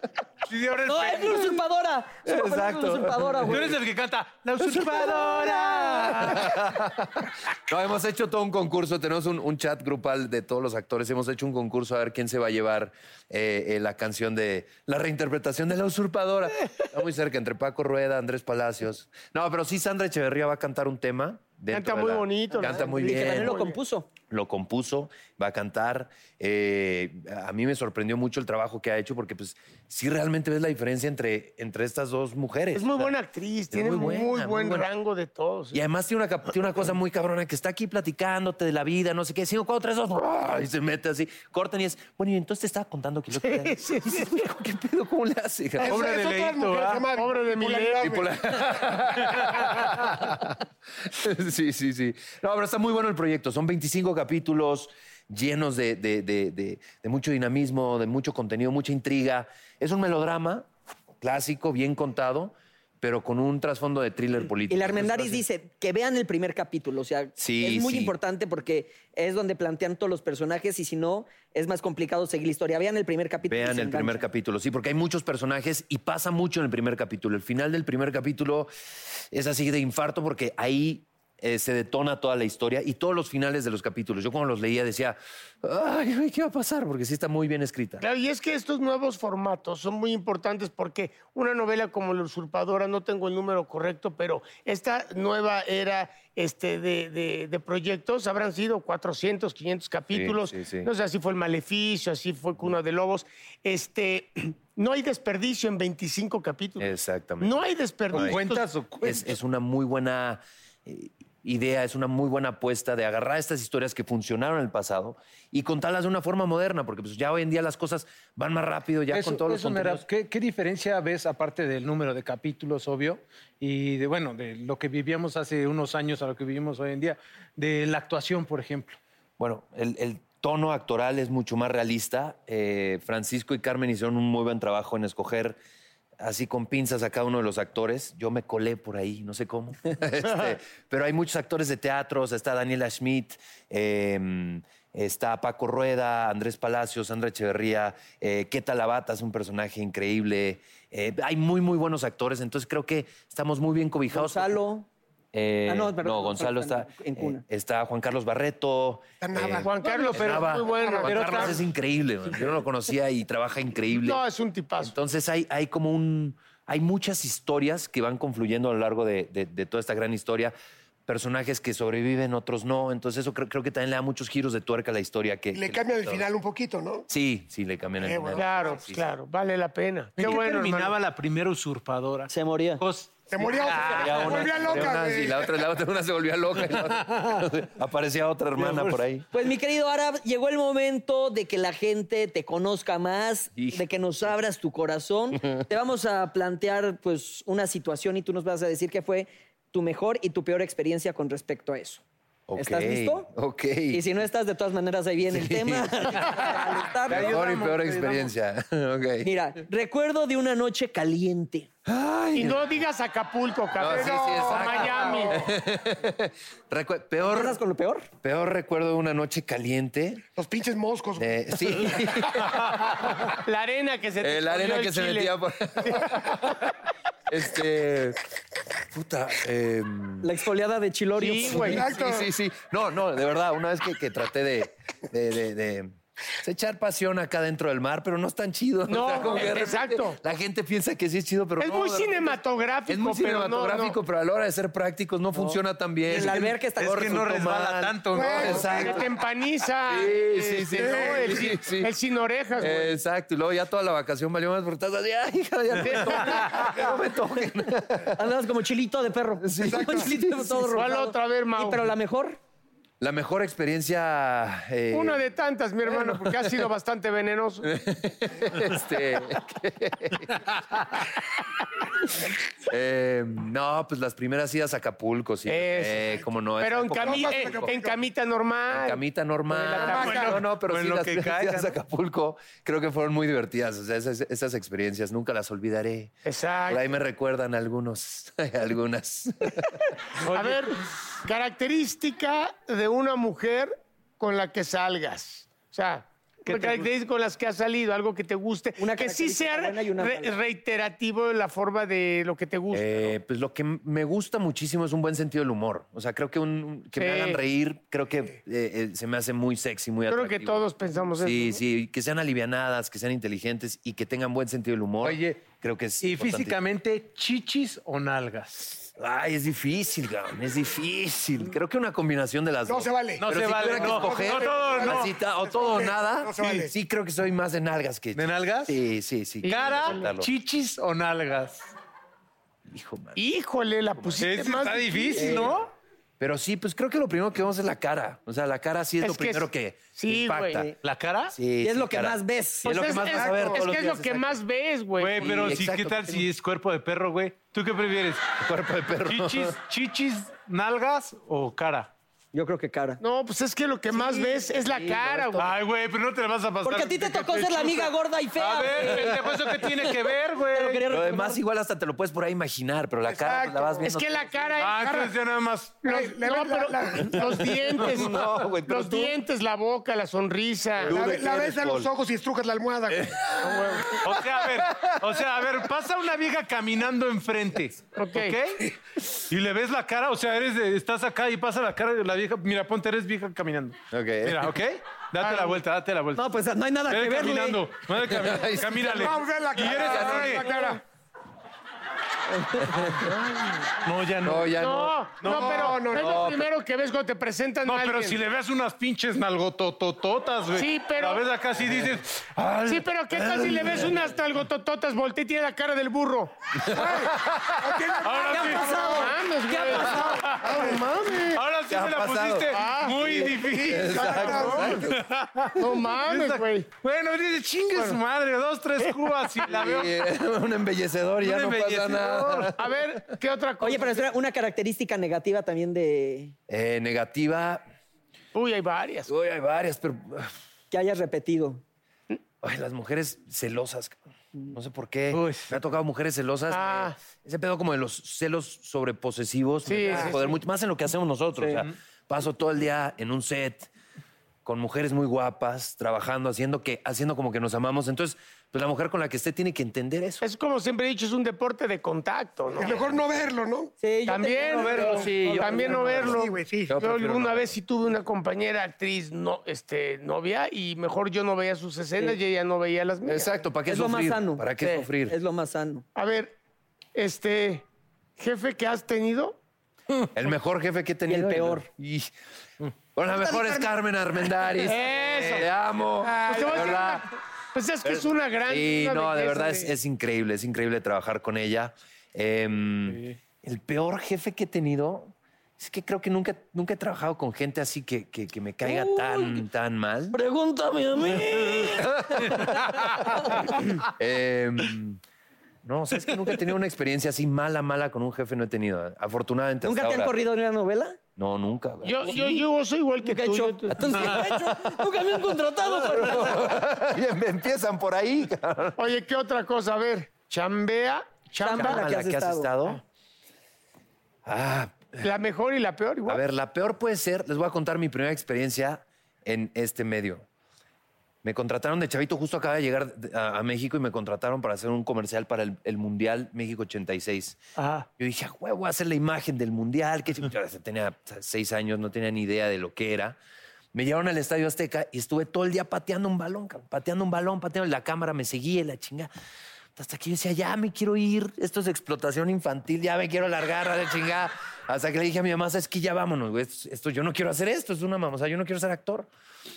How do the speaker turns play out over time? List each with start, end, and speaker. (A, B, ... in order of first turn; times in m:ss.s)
0:00.5-0:01.6 A
0:00.9-0:03.8 B
0:02.2-0:03.7 C
0:03.5-0:06.5 A
0:04.6-0:23.6 C
0:05.0-0:06.2 B
0:21.7-0:23.8 D
0:22.6-0:24.1 B
0:24.3-0:33.1 C
0:32.7-0:35.8 D
0:33.7-0:34.9 C
0:35.7-0:46.0 C
0:43.4-0:44.2 D
0:45.8-0:48.3 E
0:45.8-0:47.0 A
0:47.1-0:48.0 D
0:48.0-0:50.5 C
0:51.1-1:00.7 C
1:01.2-1:05.4 C
1:04.7-1:14.2 B
1:07.4-1:08.1 C
1:13.5-1:18.7 C
1:19.3-1:28.0 C
1:28.0-1:48.6 D
1:40.1-1:40.9 C
1:46.8-1:47.6 C
1:48.1-1:49.4 A
1:48.1-2:00.0 C
1:59.1-2:09.0 A
2:09.4-2:15.6 C
2:16.2-2:34.6 C
2:34.1-2:34.9 B
2:35.3-2:44.2 C
2:35.7-2:37.4 B
2:39.2-2:41.5 E
2:39.6-2:41.5 D
2:41.0-2:41.7 A
2:43.9-2:44.9 D
2:44.8-2:50.5 C
2:51.1-2:56.3 C
2:55.5-2:57.0 E
2:57.1-2:59.0 C
2:58.0-2:58.9 E
2:58.4-3:00.9 D
3:00.2-3:04.6 A
3:02.3-3:02.8 B
3:03.3-3:05.6 E
3:03.8-3:09.2 C
3:06.7-3:07.4 A
3:08.6-3:09.0 A
3:09.3-3:22.0 B
3:13.6-3:13.8 C
3:22.5-3:24.1 C
3:22.5-3:23.3 B
3:23.9-3:27.3 B
3:25.3-3:26.2 C
3:27.1-3:28.3 A
3:27.1-3:29.3 C
3:29.2-3:31.7 B
3:31.8-3:32.7 C
3:32.3-3:35.4 D
3:33.8-3:37.6 C
3:33.8-3:35.5 E
3:37.2-3:38.1 B
3:38.2-3:40.2 C
3:40.3-3:42.0 E
3:41.2-3:43.3 C
3:43.4-3:46.0 D
3:44.2-3:46.6 C
3:47.3-3:48.2 C
3:48.9-3:50.3 C
3:50.2-3:51.8 B
3:51.2-3:51.8 D
3:51.5-4:09.1 C
3:51.6-3:52.3 E
3:58.9-4:00.2 D
4:01.6-4:04.0 D
4:05.3-4:07.2 B
4:06.1-4:08.6 A
4:08.1-4:09.1 E
4:08.4-4:13.0 D
4:09.9-4:11.9 C
4:10.8-4:11.4 E
4:12.6-4:18.1 C
4:18.1-4:22.4 B
4:19.4-4:20.8 C
4:19.6-4:20.2 E
4:20.7-4:21.9 D
4:23.0-4:25.2 C
4:24.9-4:27.6 D
4:25.9-4:26.5 C
4:27.6-4:30.5 C
4:32.7-4:37.7 C
4:35.4-4:36.0 D
4:36.6-4:40.1 D
4:36.8-4:38.0 E
4:38.7-4:46.1 C
4:39.7-4:40.4 E
4:39.8-4:41.8 A
4:46.2-4:46.8 D
4:46.7-4:49.8 C
4:50.2-4:50.7 A
4:50.3-5:03.2 D
4:56.5-4:56.9 A
4:58.8-5:00.3 B
5:02.7-5:10.6 C
5:06.9-5:07.4 D
5:10.1-5:11.6 D
5:11.2-5:16.6 C
5:15.0-5:15.4 A
5:16.0-5:18.8 A
5:19.0-5:30.3 C
5:22.6-5:26.7 E
5:23.2-5:25.1 A
5:28.1-5:28.8 A
5:29.4-5:30.1 D
5:29.4-5:31.6 A
5:32.7-5:33.2 C
5:33.2-5:35.4 D
5:34.0-5:34.2 C
5:34.2-5:35.7 A
5:35.2-5:35.5 C
5:36.2-5:40.7 C
5:39.0-5:40.7 D
5:40.8-5:41.3 A
5:41.3-5:44.4 C
5:41.6-5:42.9 B
5:42.6-5:45.3 D
5:43.1-5:43.4 E
5:45.0-5:48.2 A
5:45.2-5:46.2 C
5:48.4-5:49.6 C
5:49.0-5:51.9 A
5:52.3-5:53.0 B
5:53.0-5:55.5 D
5:53.9-5:55.4 C
5:55.4-6:00.8 A
5:56.6-6:01.4 B
6:00.9-6:04.6 C
6:03.0-6:03.9 E
6:03.8-6:05.1 D
6:04.6-6:05.8 A
6:05.8-6:10.9 D
6:05.8-6:07.6 E
6:07.6-6:09.2 C
6:10.8-6:13.2 E
6:10.8-6:11.9 C
6:12.9-6:15.2 C
6:13.4-6:13.9 D
6:14.0-6:18.7 A
6:18.0-6:18.4 D
6:19.3-6:26.3 A
6:23.9-6:24.5 C
6:25.2-6:25.6 D
6:26.1-6:27.6 B
6:26.9-6:30.6 A
6:28.0-6:29.0 C
6:28.8-6:30.8 E
6:29.6-6:30.5 C
6:32.5-6:33.6 C
6:32.7-6:33.1 A
6:33.8-6:34.5 A
6:34.2-6:35.1 C
6:34.5-6:38.2 D
6:35.2-6:35.6 A
6:35.2-6:36.3 E
6:35.9-6:36.4 C
6:37.6-6:42.2 A
6:40.5-6:41.2 D
6:41.6-6:44.0 C
6:42.6-6:46.3 D
6:46.7-6:47.0 C
6:46.7-6:49.2 E
6:48.0-6:48.9 A
6:48.2-6:50.2 B
6:48.7-6:51.4 D
6:50.0-6:50.8 E
6:50.2-6:50.4 A
6:51.3-7:00.0 A
6:51.7-6:55.0 C
6:52.5-6:53.2 D
6:53.3-6:54.9 E
6:54.2-6:54.6 D
6:55.6-6:56.7 D
6:59.4-7:02.8 C
7:01.2-7:02.5 A
7:02.6-7:04.0 D
7:03.6-7:06.3 B
7:06.5-7:07.6 C
7:08.3-7:09.1 D
7:09.1-7:10.3 C
7:10.7-7:11.6 B
7:12.4-7:14.0 C
7:14.5-7:23.7 C
7:15.1-7:15.6 A
7:16.5-7:17.0 D
7:19.6-7:20.4 D
7:24.4-7:30.2 C
7:30.2-7:32.7 D
7:32.5-7:33.7 E
7:33.8-7:36.2 B
7:34.1-7:43.3 D
7:34.5-7:35.3 A
7:35.7-7:36.7 E
7:36.7-7:37.6 C
7:43.0-7:45.1 C
7:43.7-7:45.8 B
7:46.0-7:46.3 D
7:46.9-7:47.6 D
7:48.2-7:49.4 D
7:50.1-7:52.1 C
7:51.1-7:51.7 B
7:52.9-7:57.0 C
7:54.6-7:55.5 D
7:56.0-7:59.7 D
7:57.8-8:10.2 C
8:08.6-8:09.4 B
8:10.1-8:13.5 B
8:11.3-8:13.3 C
8:13.9-8:15.0 C
8:15.6-8:20.2 C
8:19.6-8:21.0 B
8:21.2-8:22.4 C
8:21.8-8:23.8 D
8:23.0-8:26.5 B
8:25.7-8:28.8 C
8:28.8-8:31.8 D
8:31.4-8:32.5 B
8:31.5-8:32.8 C
8:34.2-8:35.0 C
8:35.0-8:36.2 D
8:36.0-8:40.2 C
8:41.2-8:47.4 C
8:47.6-8:47.8 D
8:48.0-8:53.2 C
8:53.7-8:59.1 C
8:59.8-9:09.1 C